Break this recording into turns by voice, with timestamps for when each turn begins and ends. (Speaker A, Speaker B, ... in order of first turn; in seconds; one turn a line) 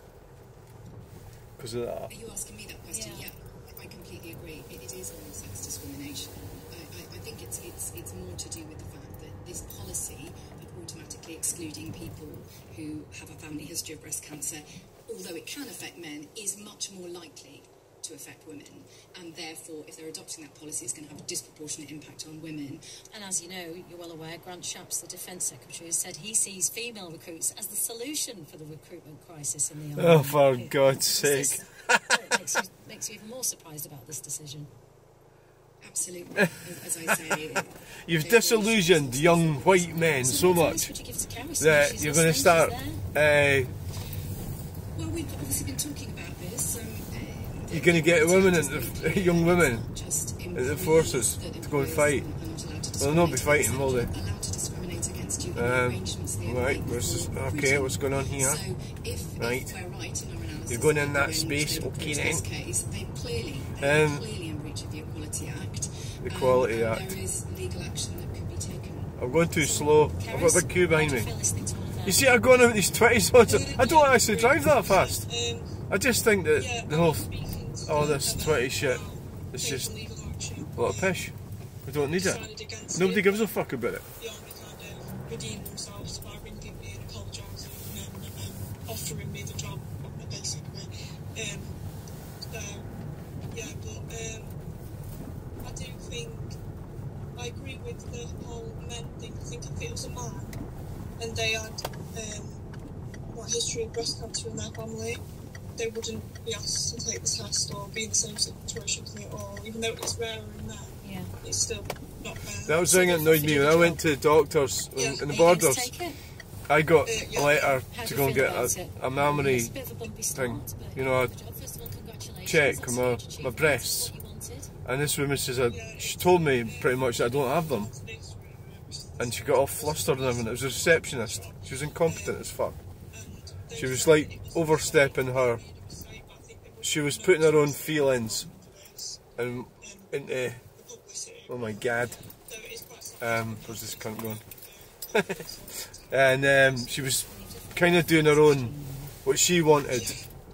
Speaker A: 1.6-2.1
Speaker B: 2.1-22.9
Speaker C: 2.9-3.3
Speaker C: 23.1-34.7
Speaker A: 29.9-32.4
Speaker B: 35.8-40.7
Speaker A: 38.0-40.9
Speaker C: 40.2-43.0
Speaker A: 41.6-43.8
Speaker B: 44.9-69.2
Speaker A: 47.7-49.9
Speaker A: 50.5-52.3
Speaker A: 53.0-54.1
Speaker A: 55.5-58.6
Speaker A: 59.4-59.7
Speaker A: 60.7-62.4
Speaker A: 63.8-64.2
Speaker A: 66.2-67.2
Speaker A: 69.2-71.3
Speaker C: 69.7-72.9
Speaker A: 72.0-75.2
Speaker D: 73.4-75.8
Speaker A: 75.9-77.3
Speaker D: 76.5-81.2
Speaker A: 77.8-79.9
Speaker A: 80.8-84.1
Speaker D: 81.9-91.8
Speaker D: 92.5-92.9
Speaker D: 93.5-94.6
Speaker D: 95.6-96.5
Speaker D: 97.3-100.6
Speaker D: 101.2-102.6
Speaker D: 103.3-105.2
Speaker D: 105.8-114.0
Speaker C: 111.0-111.3
Speaker A: 112.7-115.9
Speaker D: 114.9-115.7
Speaker C: 115.3-116.2
Speaker A: 116.7-119.8
Speaker D: 117.0-117.8
Speaker C: 117.8-124.7
Speaker A: 120.3-121.3
Speaker A: 122.4-124.1
Speaker A: 124.8-127.9
Speaker D: 125.6-132.6
Speaker A: 129.2-132.8
Speaker D: 133.1-146.2
Speaker A: 133.7-135.6
Speaker A: 136.8-138.5
Speaker A: 139.3-140.6
Speaker A: 141.5-142.2
Speaker A: 143.2-144.4
Speaker A: 145.1-150.2
Speaker C: 146.6-149.2
Speaker D: 149.9-150.3